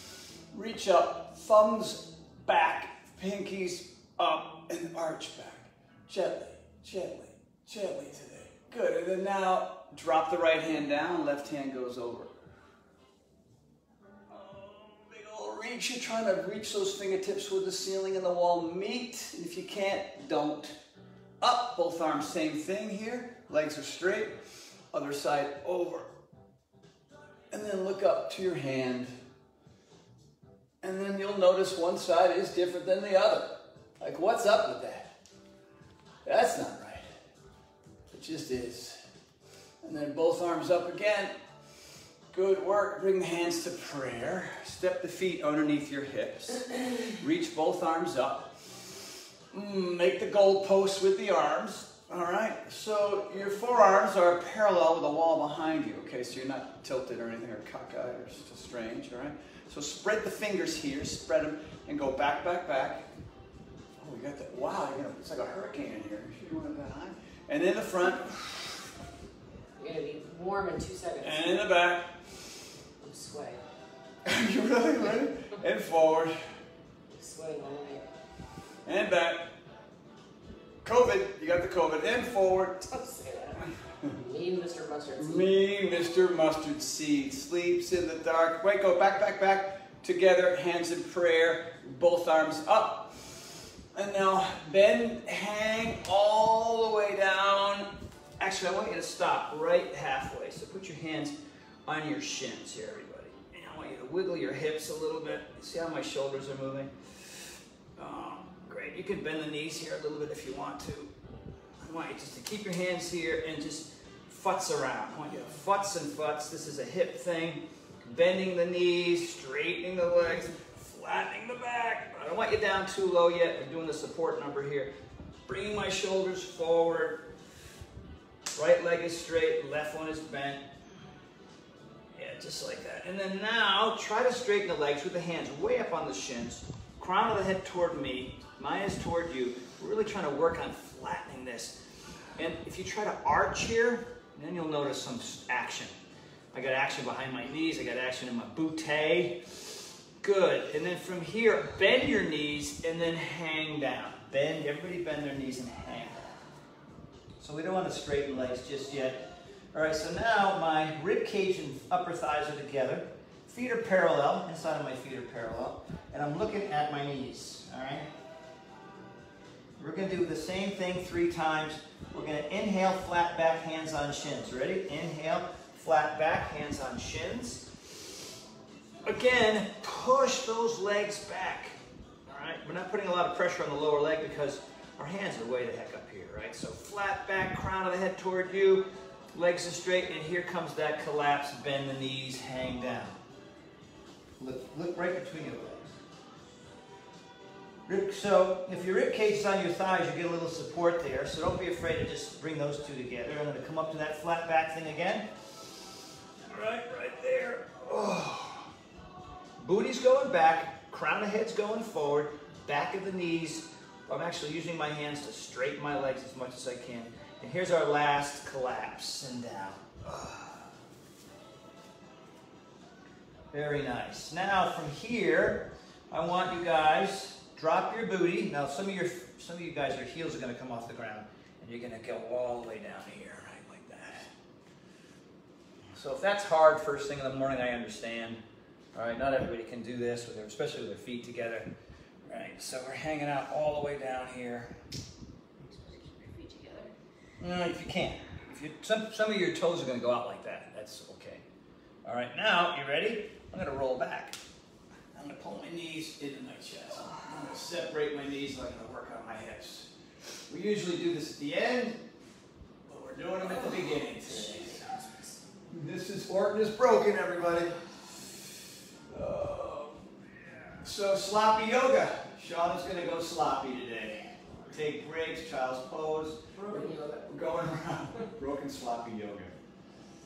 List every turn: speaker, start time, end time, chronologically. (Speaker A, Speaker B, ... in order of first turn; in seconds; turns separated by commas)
Speaker A: 0.5-12.3, Speaker A: 14.3-20.8, Speaker A: 21.4-24.3, Speaker A: 24.9-26.1, Speaker A: 27.5-29.1, Speaker A: 30.8-35.1, Speaker A: 36.2-37.0, Speaker A: 38.1-39.0, Speaker A: 39.8-41.3, Speaker A: 42.3-49.0, Speaker A: 49.5-63.0, Speaker A: 64.0-68.8, Speaker B: 69.8-71.5, Speaker A: 71.2-72.1, Speaker B: 73.0-73.6, Speaker A: 74.2-76.3, Speaker B: 77.1-78.1, Speaker A: 78.8-79.5, Speaker A: 80.8-82.9, Speaker B: 82.9-85.5, Speaker A: 85.2-101.3, Speaker A: 101.9-107.4, Speaker A: 108.0-111.1, Speaker A: 111.8-124.9, Speaker A: 125.5-127.2, Speaker A: 128.5-130.6, Speaker A: 132.1-141.8, Speaker A: 142.4-145.9, Speaker A: 146.5-149.4, Speaker A: 150.2-156.2, Speaker A: 157.4-168.1, Speaker A: 169.8-177.7, Speaker A: 179.0-193.2, Speaker A: 194.4-196.0, Speaker A: 197.9-205.3, Speaker A: 206.5-208.7, Speaker A: 209.6-220.7, Speaker A: 223.5-234.3, Speaker A: 235.9-238.4, Speaker A: 238.9-241.7, Speaker A: 242.3-244.7, Speaker B: 245.7-246.9, Speaker A: 247.4-251.4, Speaker A: 252.0-254.4, Speaker A: 255.1-259.9, Speaker A: 260.5-262.0, Speaker A: 262.9-264.9, Speaker B: 263.4-265.4, Speaker A: 265.7-267.8, Speaker A: 269.1-270.0, Speaker A: 270.7-279.5, Speaker B: 276.6-277.3